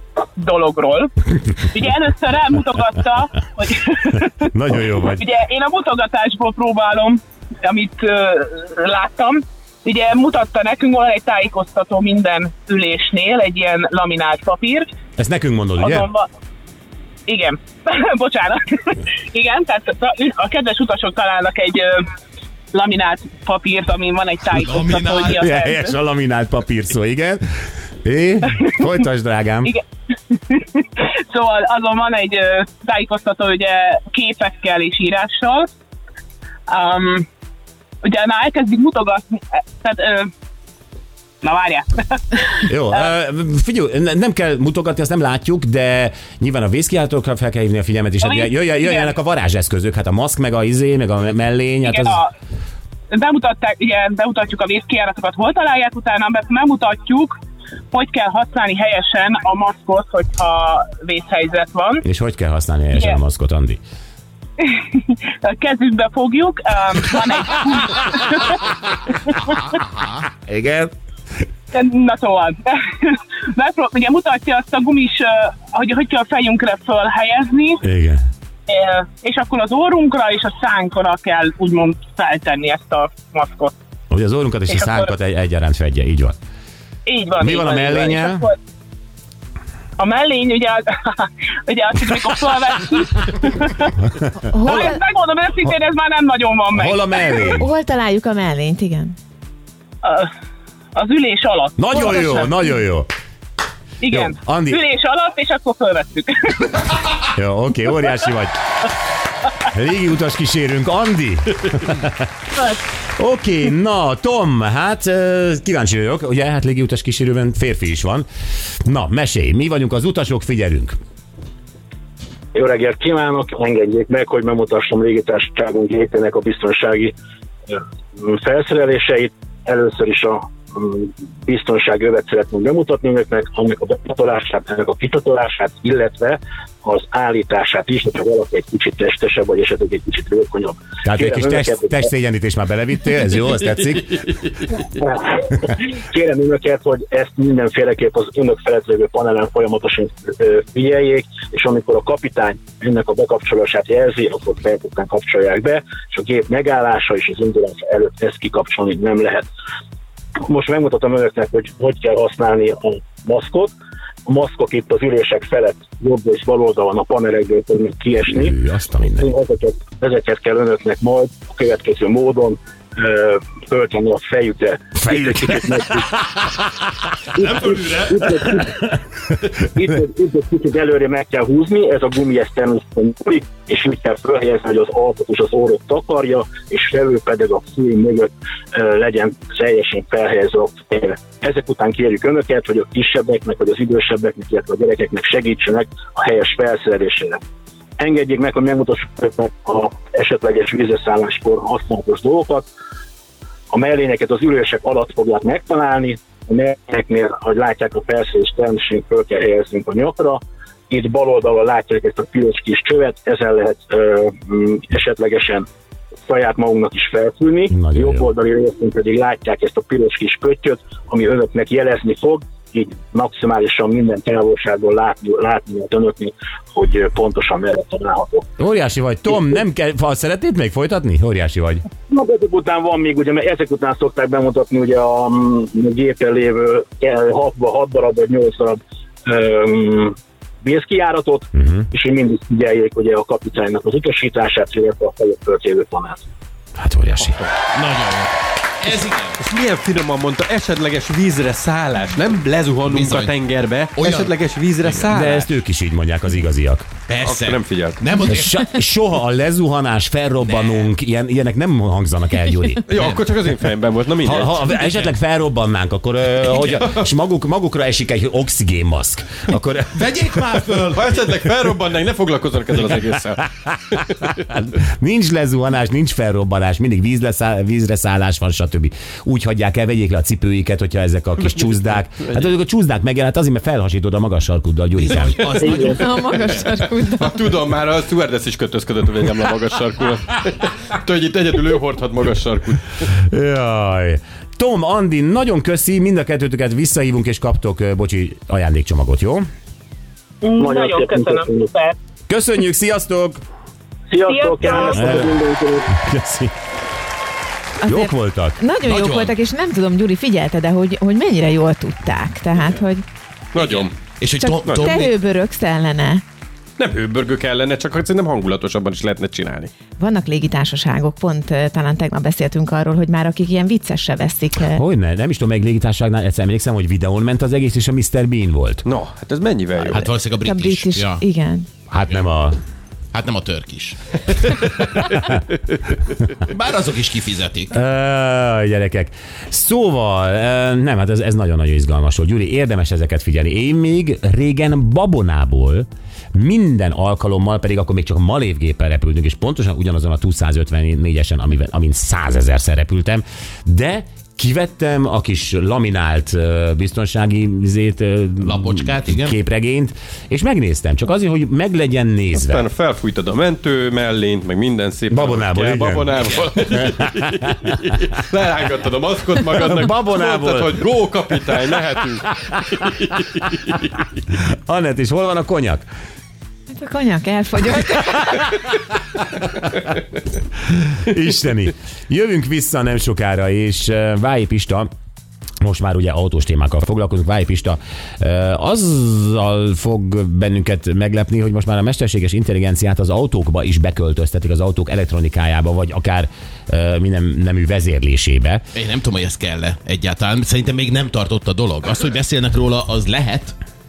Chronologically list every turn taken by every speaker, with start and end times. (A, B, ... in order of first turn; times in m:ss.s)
0:00.4-0:04.4 A
0:04.4-0:05.2 B
0:05.1-0:14.9 A
0:15.2-0:16.1 B
0:15.8-0:16.3 A
0:17.3-0:22.1 A
0:22.7-0:25.9 A
0:24.6-0:25.3 C
0:25.3-0:27.4 B
0:28.0-0:29.7 B
0:30.4-0:35.7 A
0:36.7-0:37.3 A
0:38.0-0:40.3 A
0:41.4-0:43.0 A
0:42.7-0:52.2 B
0:48.2-0:49.1 A
0:51.8-0:52.3 A
0:53.1-0:57.4 A
0:57.9-1:02.0 A
1:02.0-1:03.8 B
1:02.9-1:03.2 A
1:04.6-1:08.6 A
1:10.3-1:10.9 B
1:11.7-1:17.8 A
1:17.8-1:18.2 B
1:18.7-1:23.7 A
1:24.1-1:26.4 B
1:24.7-1:25.1 A
1:27.1-1:28.6 A
1:27.4-1:28.5 B
1:30.0-1:34.0 A
1:34.5-1:35.0 D
1:34.6-1:37.6 A
1:36.7-1:37.7 B
1:37.5-1:39.2 D
1:40.0-1:40.3 A
1:41.0-1:42.5 A
1:41.8-1:43.1 B
1:44.0-1:46.9 A
1:44.1-1:44.8 B
1:47.3-1:48.5 B
1:49.7-1:52.2 B
1:53.2-1:58.3 B
1:58.8-2:01.0 B
2:02.5-2:07.1 E
2:07.7-2:22.1 E
2:21.0-2:24.2 B
2:25.0-2:39.4 E
2:40.5-2:43.7 E
2:44.3-2:48.6 E
2:48.3-2:49.3 B
2:49.2-2:56.2 E
2:57.3-2:58.9 E
2:59.6-3:17.4 E
3:18.0-3:22.7 E
3:23.7-3:35.7 E
3:36.3-3:48.5 E
3:37.7-3:38.3 B
3:48.6-3:51.9 B
3:52.1-4:06.2 E
4:01.6-4:01.9 B
4:06.8-4:07.4 B
4:07.2-4:07.5 F
4:07.7-4:09.4 C
4:09.4-4:15.5 F
4:12.8-4:13.4 C
4:13.9-4:15.0 C
4:15.1-4:16.9 B
4:17.1-4:18.7 C
4:17.2-4:18.1 F
4:18.3-4:22.8 B
4:20.4-4:20.9 C
4:22.9-4:24.9 F
4:23.0-4:23.2 C
4:24.2-4:31.0 B
4:30.1-4:30.8 C
4:30.9-4:34.4 F
4:34.5-4:45.8 B
4:42.2-4:42.5 F
4:45.0-4:46.2 C
4:45.4-4:53.1 F
4:45.6-4:47.4 D
4:53.3-4:59.4 B
5:00.4-5:02.0 A
5:00.6-5:01.7 E
5:02.3-5:03.4 B
5:04.1-5:06.0 E
5:04.3-5:05.2 A
5:04.7-5:05.4 B
5:05.9-5:06.5 B
5:07.8-5:13.0 D
5:07.8-5:08.6 B
5:08.8-5:09.4 C
5:13.5-5:13.9 F
5:13.6-5:15.2 C
5:14.4-5:16.2 D
5:14.6-5:15.0 F
5:16.8-5:19.7 F
5:20.0-5:24.8 D
5:24.8-5:28.8 B
5:28.8-5:30.1 F
5:29.8-5:31.2 C
5:30.3-5:31.7 D
5:31.9-5:32.6 B
5:33.1-5:35.2 C
5:36.4-5:37.7 C
5:37.7-6:02.6 B
5:58.4-5:59.4 C
6:02.3-6:14.0 F
6:05.1-6:06.1 B
6:06.2-6:06.6 C
6:09.6-6:10.8 B
6:12.3-6:12.8 B
6:14.5-6:15.8 B
6:16.8-6:18.5 D
6:21.0-6:24.9 B
6:25.6-6:38.7 B
6:38.8-6:43.6 C